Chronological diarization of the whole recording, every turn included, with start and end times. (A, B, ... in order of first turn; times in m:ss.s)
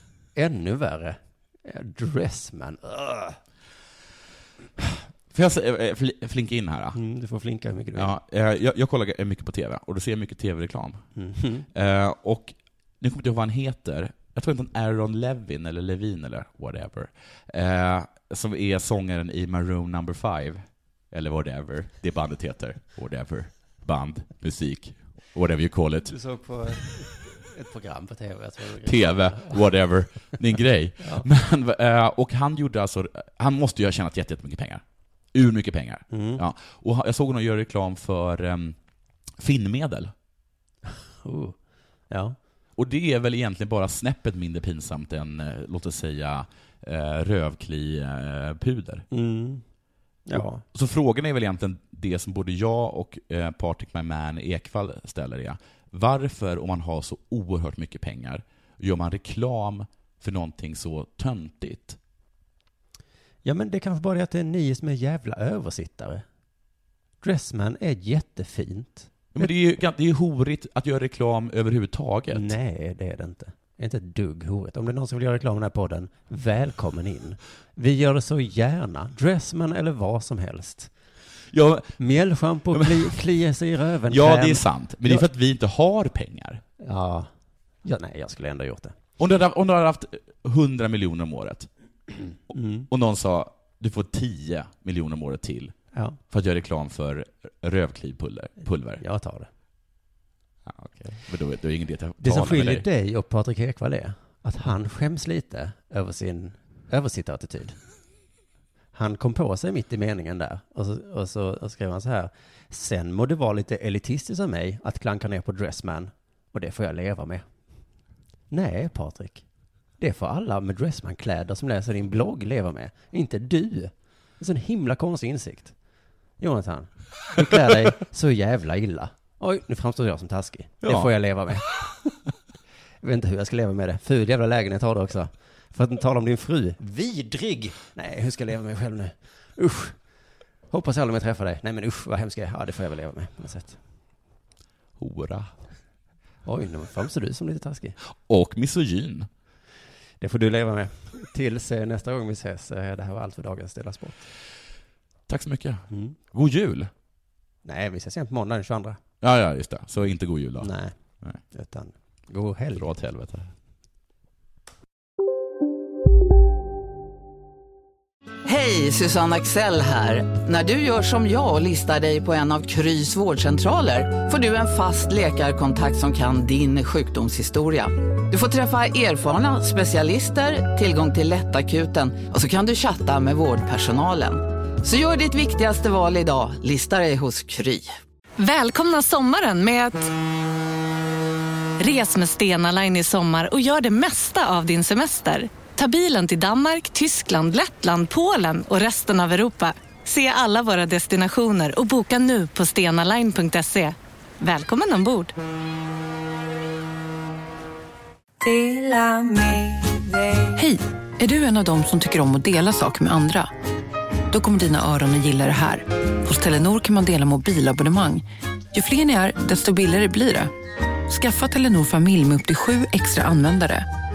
0:00.3-0:03.4 A
0:04.8-0:07.0 B
0:06.9-0:08.1 A
0:07.9-0:11.0 B
0:11.1-0:11.7 A
0:11.7-0:26.1 B
0:26.1-0:29.7 A
0:28.8-0:38.8 B
0:31.0-0:31.3 A
0:36.1-0:36.4 A
0:39.4-0:40.1 B
0:41.2-0:41.6 A
0:42.1-0:42.4 A
0:42.8-0:49.0 B
0:49.1-0:49.6 A
0:50.2-0:50.6 A
0:50.4-1:02.0 B
1:03.4-1:06.2 A
1:07.2-1:09.5 A
1:09.3-1:12.6 B
1:12.3-1:20.9 A
1:21.5-1:22.0 B
1:22.0-1:25.3 A
1:22.7-1:23.2 B
1:24.1-1:26.6 B
1:26.8-1:27.3 A
1:27.8-1:28.9 A
1:29.2-1:31.7 B
1:32.5-1:35.8 B
1:32.5-1:32.9 A
1:35.9-1:36.2 A
1:36.3-1:39.0 B
1:39.0-1:39.5 A
1:40.6-1:42.8 B
1:42.2-1:47.8 A
1:48.9-1:57.4 A
1:58.5-1:59.4 A
2:00.0-2:05.7 A
2:06.4-2:11.7 A
2:10.8-2:11.7 B
2:13.0-2:20.0 A
2:20.7-2:23.8 A
2:25.0-2:25.5 B
2:26.4-2:28.0 A
2:28.0-2:29.3 B
2:30.2-2:34.2 A
2:35.3-2:36.9 B
2:35.9-2:36.2 A
2:37.6-2:39.0 A
2:39.2-2:41.4 B
2:40.6-2:40.9 A
2:41.5-2:42.9 A
2:42.8-2:43.5 B
2:48.4-3:07.9 C
3:08.4-3:10.1 D
3:11.8-3:25.3 D
3:28.4-3:33.5 E
3:34.3-3:40.5 E
3:41.1-3:43.9 E